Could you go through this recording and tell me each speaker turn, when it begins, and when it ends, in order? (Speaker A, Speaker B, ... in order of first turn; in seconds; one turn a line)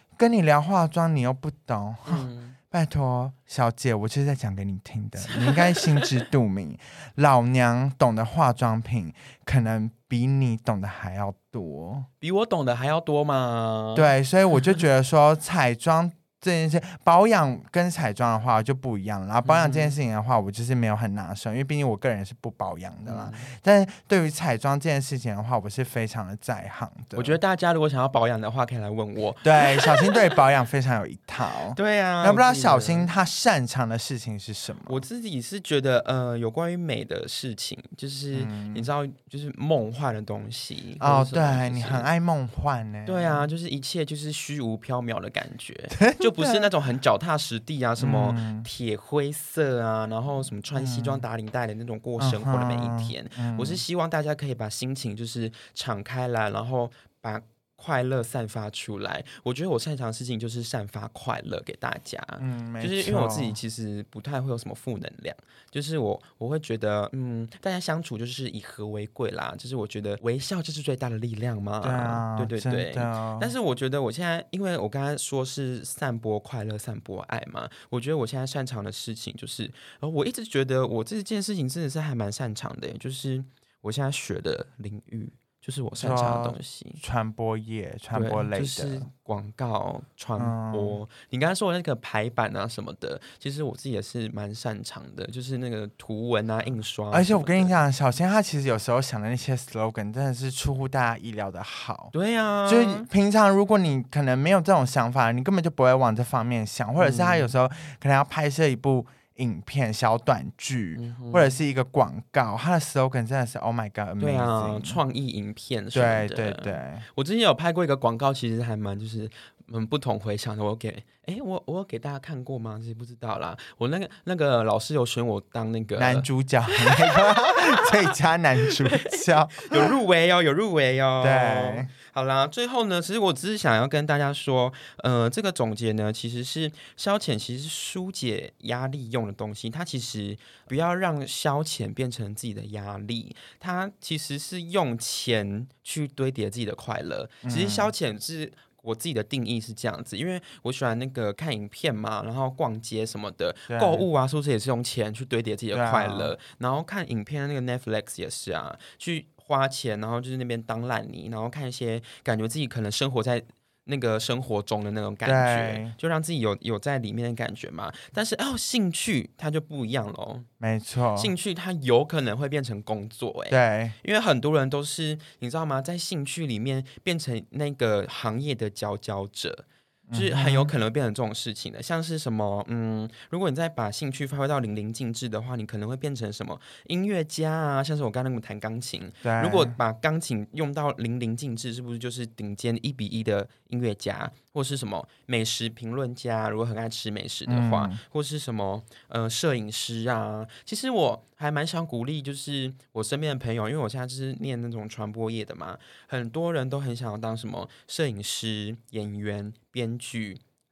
Speaker A: 0.2-12.1
Speaker B: 2.1-2.6
Speaker B: 5.2-6.2
Speaker B: 12.2-14.8
Speaker A: 14.0-27.4
Speaker B: 19.4-20.0
Speaker B: 23.1-23.5
Speaker B: 27.1-30.2
Speaker A: 29.4-35.0
Speaker B: 31.8-33.1
Speaker B: 34.9-42.1
Speaker A: 38.3-38.9
Speaker A: 41.0-43.5
Speaker B: 43.1-87.0
Speaker A: 46.0-46.7
Speaker A: 48.0-48.7
Speaker A: 50.8-51.2
Speaker A: 52.2-53.8
Speaker A: 62.4-63.6
Speaker A: 71.8-73.5
Speaker A: 86.0-89.1
Speaker B: 88.1-97.8
Speaker A: 90.4-91.0
Speaker A: 97.1-102.1
Speaker B: 102.1-103.1
Speaker A: 102.7-115.0
Speaker B: 107.0-107.5
Speaker B: 111.0-111.6
Speaker B: 114.2-128.0
Speaker A: 115.9-117.0
Speaker A: 126.0-129.9
Speaker B: 128.6-170.5
Speaker A: 131.2-131.9
Speaker A: 147.4-147.9
Speaker A: 153.7-154.1
Speaker A: 155.7-156.3
Speaker A: 165.2-165.9
Speaker A: 170.6-171.3
Speaker B: 171.2-210.4
Speaker A: 173.5-174.0
Speaker A: 180.1-180.7
Speaker A: 189.2-189.8
Speaker A: 197.5-198.0